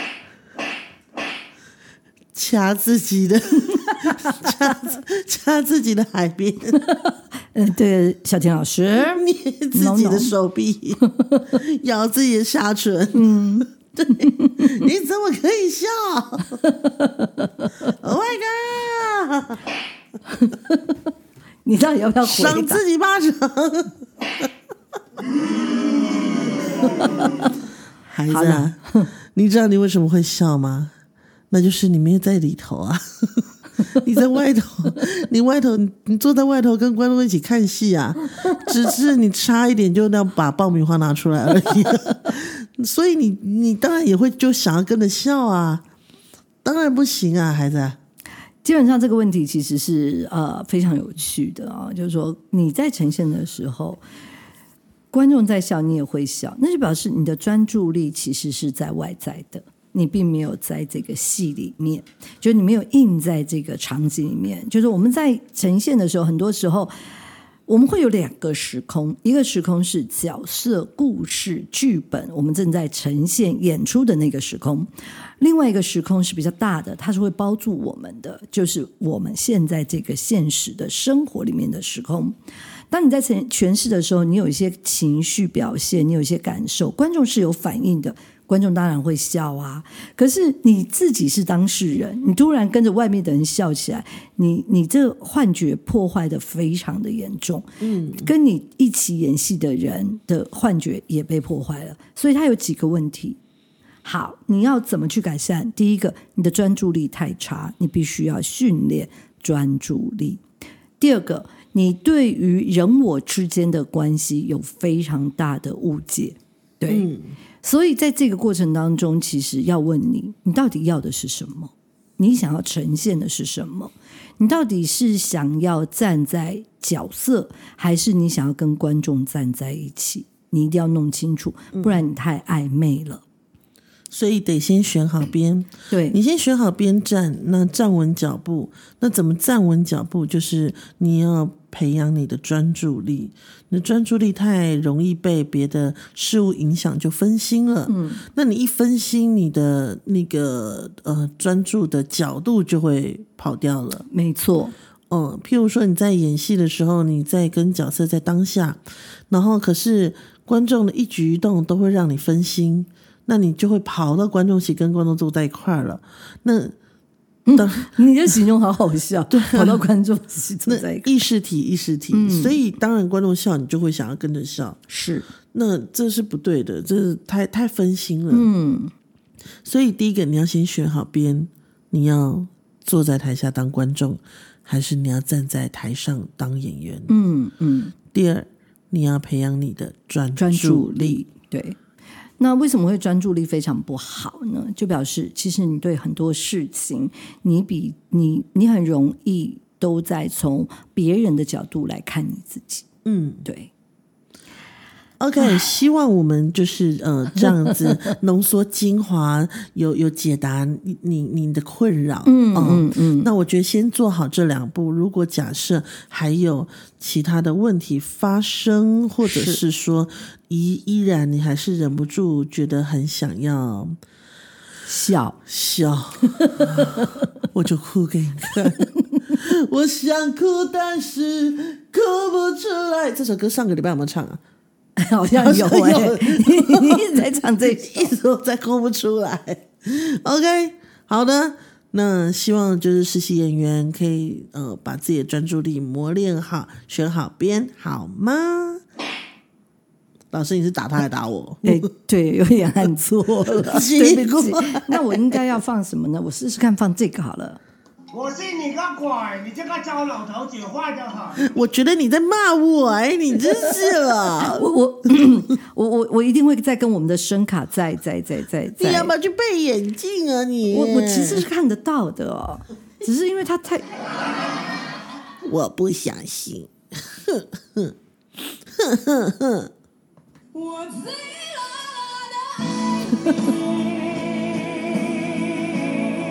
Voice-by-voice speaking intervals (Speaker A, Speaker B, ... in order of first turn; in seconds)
Speaker A: 2.3-6.8, 9.0-13.4, 13.9-16.6, 18.0-19.6, 22.2-24.0, 28.1-30.9, 31.5-45.9, 46.6-48.0, 97.8-98.3, 116.9-117.3, 131.7-132.0, 134.1-154.1, 155.1-166.8, 167.6-167.9, 169.3-169.9, 170.7-174.8, 175.5-178.5, 179.7-187.1, 188.1-191.2, 203.1-203.4, 205.2-224.0, 225.5-234.4, 235.3-248.8, 250.3-251.8, 253.7-255.4, 261.4-264.7, 268.8-271.5, 275.4-277.9, 278.7-279.7
Speaker B: 3.8-4.4, 6.8-10.3, 11.0-11.5, 13.1-14.8, 16.6-17.9, 20.3-20.9, 21.6-22.8, 28.3-29.1, 48.6-54.0, 55.1-66.9, 67.7-74.9, 75.4-82.3, 82.9-103.4, 104.0-110.4, 111.0-117.1, 117.6-133.2, 135.9-136.2, 147.9-148.2, 154.1-154.7, 167.5-171.1, 172.1-172.6, 174.9-175.3, 178.3-178.9, 187.1-187.9, 190.4-191.8, 192.4-202.9, 203.4-203.7, 205.4-205.7, 207.4-208.0, 212.3-213.3, 219.2-219.6, 224.9-225.4, 226.3-227.2, 235.0-238.1, 251.6-257.6, 264.4-269.1, 270.7-273.9
Speaker C: 258.1-261.5, 280.6-282.7, 283.8-286.1